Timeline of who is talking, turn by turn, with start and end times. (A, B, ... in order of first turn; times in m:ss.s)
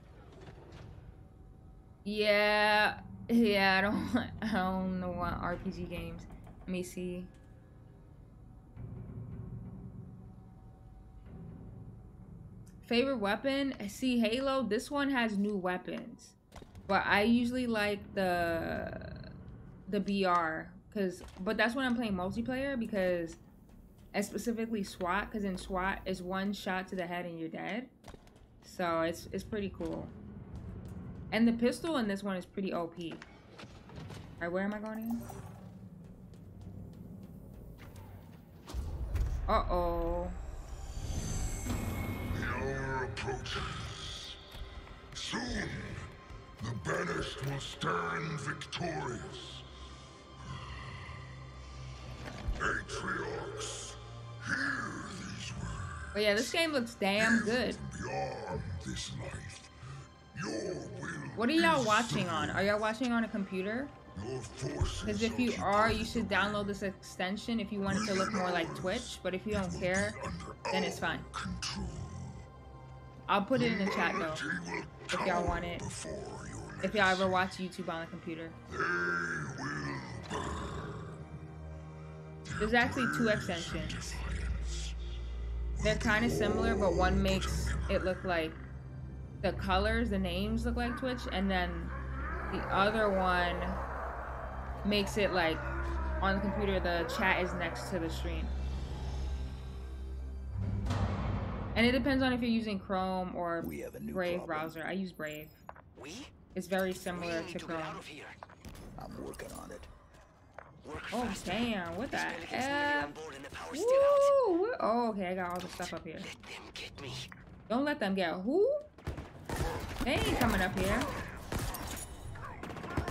0:02.0-0:07.3 A
0:12.8-0:16.4 A
0:16.9-0:19.3 A
0:19.9-0:23.4 A
0:24.1-0:27.9 A
0:28.6-0:30.1 A
0:31.3-0:33.3 A
0:34.4-0:35.3 A
0:39.5-0:40.4 A
0:42.3-0:44.4 B
0:45.1-0:49.7 B
0:52.6-0:56.6 B
0:56.1-0:57.8 A
0:57.2-0:59.7 B
1:00.3-1:02.7 B
1:01.4-1:03.9 A
1:04.1-1:06.8 B
1:05.0-1:10.2 A
1:07.8-1:12.5 B
1:10.7-1:11.3 A
1:13.3-1:14.4 A
1:13.5-1:17.4 B
1:15.1-1:15.8 A
1:16.8-1:18.6 A
1:18.7-1:21.2 B
1:22.5-1:25.0 B
1:22.6-1:24.0 A
1:25.8-1:28.1 B
1:25.8-1:28.6 A
1:29.4-1:32.0 A
1:32.5-1:33.8 A
1:34.8-1:35.6 A
1:36.2-1:38.5 A
1:41.8-1:45.6 A
1:43.6-1:44.8 C
1:46.0-1:46.3 D
1:46.6-1:48.0 A
1:47.1-1:48.4 D
1:49.0-1:49.9 C
1:50.8-1:54.4 D
1:51.1-1:53.2 A
1:53.7-1:56.3 A
1:55.6-1:57.3 D
1:57.7-1:58.9 A
2:00.0-2:01.1 A